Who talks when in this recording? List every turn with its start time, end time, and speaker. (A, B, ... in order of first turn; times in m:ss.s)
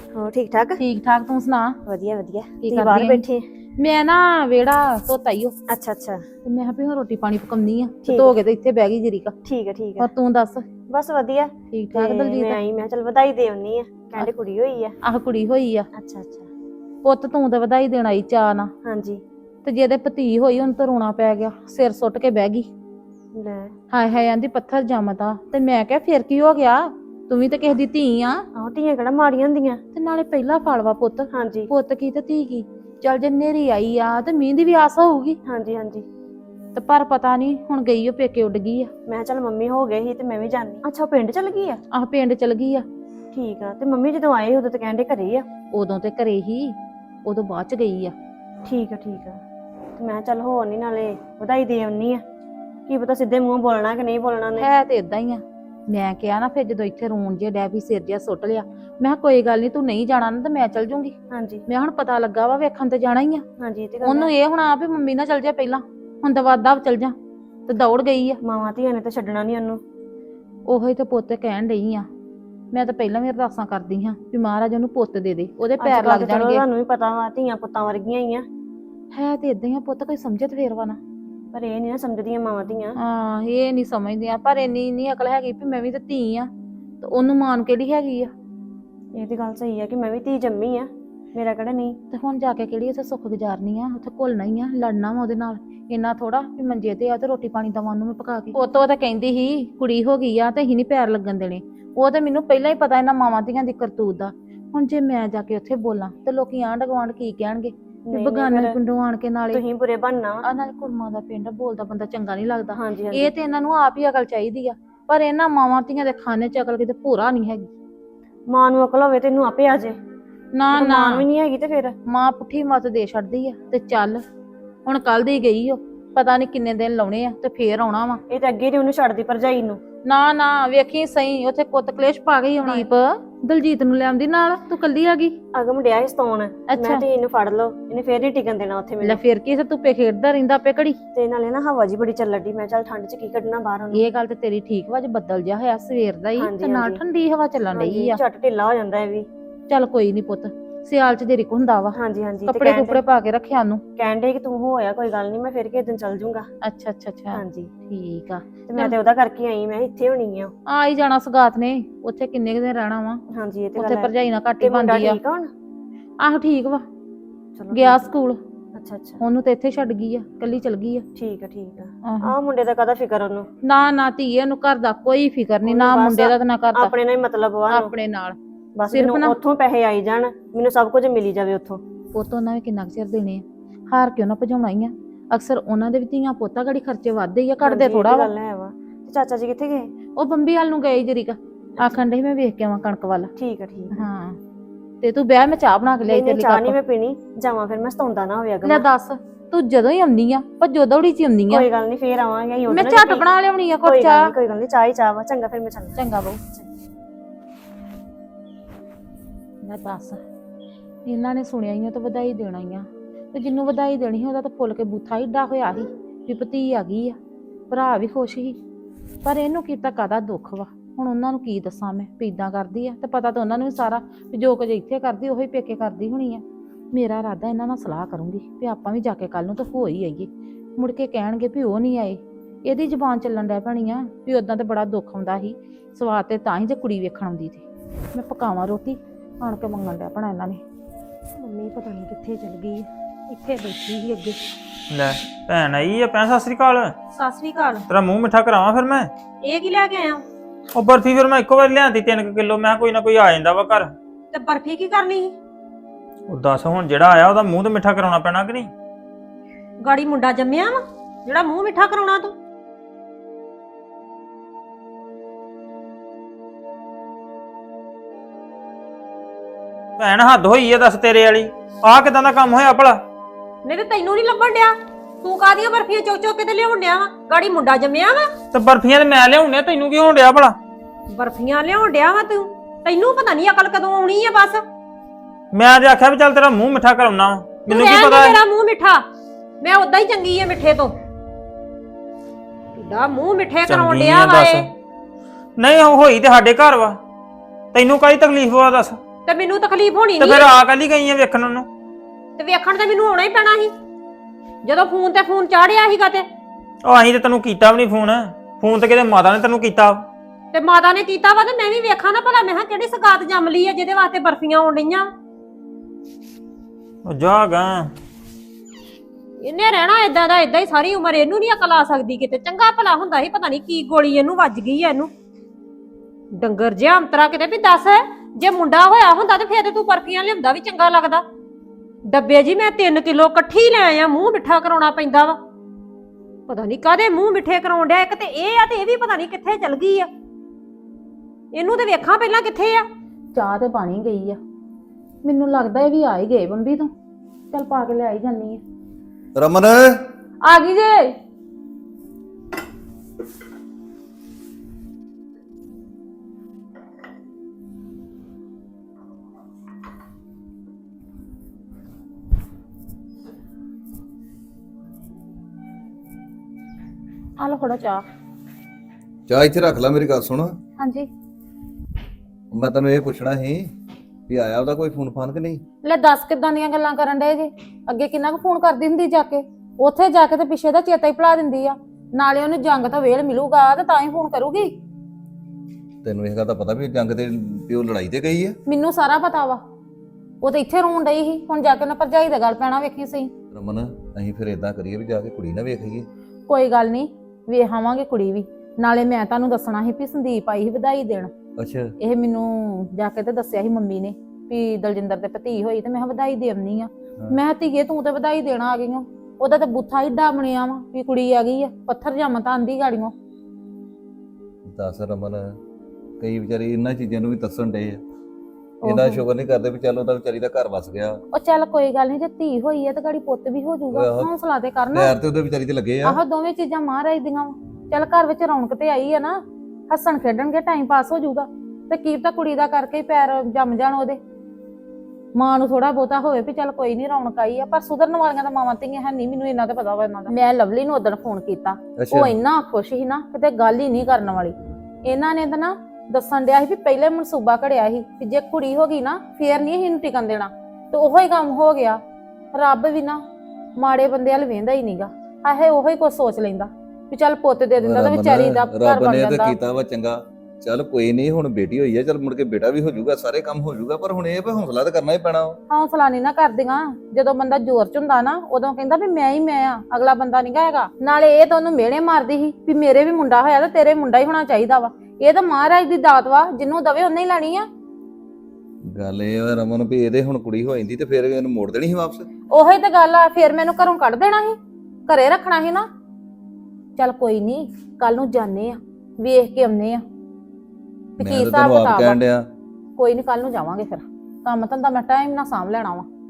0:00.2-0:00.8 A
0:00.8-0:01.7 B
0:01.9-0:03.5 A
0:02.6-0:03.2 B
0:03.8-0:05.6 B
0:05.7-0:06.2 A
0:06.5-0:09.4 B
0:08.1-0:08.3 A
0:09.5-0:10.1 A
0:10.0-0:10.6 B
0:10.9-0:15.0 A
0:11.7-0:12.6 B
0:15.0-0:15.9 B
0:16.0-0:16.5 A
0:17.0-0:18.7 B
0:18.8-0:19.2 A
0:19.6-0:22.7 B
0:23.4-0:23.7 A
0:23.9-0:28.4 B
0:28.6-0:29.8 A
0:30.0-0:35.4 B
0:31.3-0:31.7 A
0:35.5-0:36.0 A
0:36.8-0:38.9 B
0:39.1-0:41.8 A
0:41.9-0:42.8 B
0:43.3-0:45.5 A
0:45.7-0:46.8 B
0:47.3-0:48.1 B
0:48.7-0:49.4 A
0:50.0-0:52.2 A
0:52.9-0:54.7 A
0:54.6-1:01.1 B
1:01.3-1:01.6 A
1:01.7-1:03.4 B
1:03.6-1:04.3 A
1:04.0-1:07.1 B
1:07.7-1:08.4 B
1:08.4-1:09.8 A
1:10.7-1:12.1 B
1:12.7-1:16.6 B
1:15.8-1:18.5 A
1:19.1-1:21.0 B
1:21.5-1:23.0 A
1:23.0-1:26.5 B
1:27.0-1:28.3 B
1:29.2-1:32.0 A
1:32.1-1:49.6 B
1:48.1-1:48.8 A
1:49.5-1:50.4 A
1:50.4-1:57.7 B
1:52.8-1:53.3 A
1:58.5-2:00.0 A
2:00.6-2:01.3 B
2:00.7-2:02.0 A
2:02.1-2:04.2 B
2:04.9-2:08.2 B
2:08.3-2:09.8 A
2:10.1-2:15.4 B
2:15.5-2:19.2 A
2:16.7-2:17.0 B
2:19.0-2:21.0 B
2:21.1-2:24.0 A
2:23.9-2:28.2 B
2:26.4-2:27.0 A
2:27.7-2:29.3 A
2:29.7-2:33.8 B
2:32.0-2:33.0 A
2:34.0-2:36.5 A
2:36.6-2:38.9 B
2:37.3-2:37.7 A
2:38.7-2:40.5 A
2:40.7-2:43.2 B
2:43.3-2:45.5 A
2:43.8-2:45.2 B
2:46.2-2:46.8 B
2:47.6-2:48.0 A
2:47.7-2:48.4 B
2:48.8-2:49.2 A
2:49.2-2:51.0 B
2:51.2-2:53.5 A
2:52.1-2:52.3 B
2:53.7-2:56.9 B
2:55.6-2:57.9 A
2:57.7-2:58.4 B
2:58.8-3:01.8 A
2:58.9-2:59.4 B
3:02.2-3:08.3 B
3:07.6-3:09.9 A
3:10.2-3:13.3 B
3:13.4-3:13.9 A
3:14.0-3:14.4 B
3:15.0-3:16.8 B
3:16.1-3:18.9 A
3:18.6-3:21.7 B
3:21.6-3:23.3 A
3:22.7-3:24.3 B
3:23.8-3:26.0 A
3:26.0-3:26.4 B
3:29.6-3:30.2 B
3:31.1-3:37.2 B
3:37.7-3:38.6 B
3:39.2-4:00.6 B
4:01.4-4:04.4 C
4:04.9-4:06.9 D
4:07.2-4:07.9 C
4:07.9-4:09.1 D
4:09.4-4:10.2 C
4:10.8-4:14.0 D
4:14.3-4:15.3 C
4:16.3-4:18.7 D
4:19.8-4:22.4 C
4:30.0-4:33.0 D
4:33.6-4:38.3 C
4:38.5-4:40.6 D
4:41.1-4:44.6 C
4:45.5-4:48.4 D
4:47.7-4:49.0 C
4:49.6-4:50.9 C
4:52.8-4:54.7 C
4:53.7-4:54.7 D
4:55.6-4:57.0 D
4:57.7-4:59.0 D
4:59.3-5:00.5 C
5:00.2-5:01.7 D
5:02.4-5:03.7 C
5:04.6-5:06.3 C
5:06.8-5:10.1 D
5:10.5-5:15.1 C
5:17.0-5:17.9 D
5:19.4-5:25.1 C
5:26.4-5:31.2 C
5:32.1-5:35.4 C
5:36.5-5:40.1 C
5:41.5-5:42.9 C
5:43.3-5:44.4 B
5:45.2-5:46.9 B
5:47.5-5:48.6 B
5:49.4-5:50.0 E
5:50.4-5:51.1 B
6:07.4-6:08.0 B
6:09.3-6:10.6 E
6:10.8-6:11.1 B
6:12.5-6:13.7 E
6:14.3-6:15.6 E
6:15.8-6:24.7 B
6:26.0-6:28.6 E
6:28.7-6:29.6 B
6:30.4-6:33.3 B
6:33.5-6:36.1 E
6:36.5-6:41.3 B
6:41.6-6:41.9 E
6:42.0-6:53.1 B
6:54.7-6:55.5 E
6:56.2-6:58.0 E
6:58.8-7:01.2 E
6:58.8-6:59.2 B
7:01.3-7:05.2 B
7:03.9-7:04.3 E
7:04.9-7:06.2 E
7:06.0-7:14.2 B
7:15.4-7:24.5 B
7:22.0-7:22.3 E
7:25.0-7:32.0 B
7:32.5-7:33.2 B
7:33.8-7:39.6 B
7:37.8-7:45.6 E
7:45.7-7:57.7 B
7:58.9-8:02.3 E
8:02.5-8:05.9 B
8:07.0-8:10.0 B
8:11.2-8:12.2 B
8:11.2-8:12.5 E
8:13.0-8:16.1 B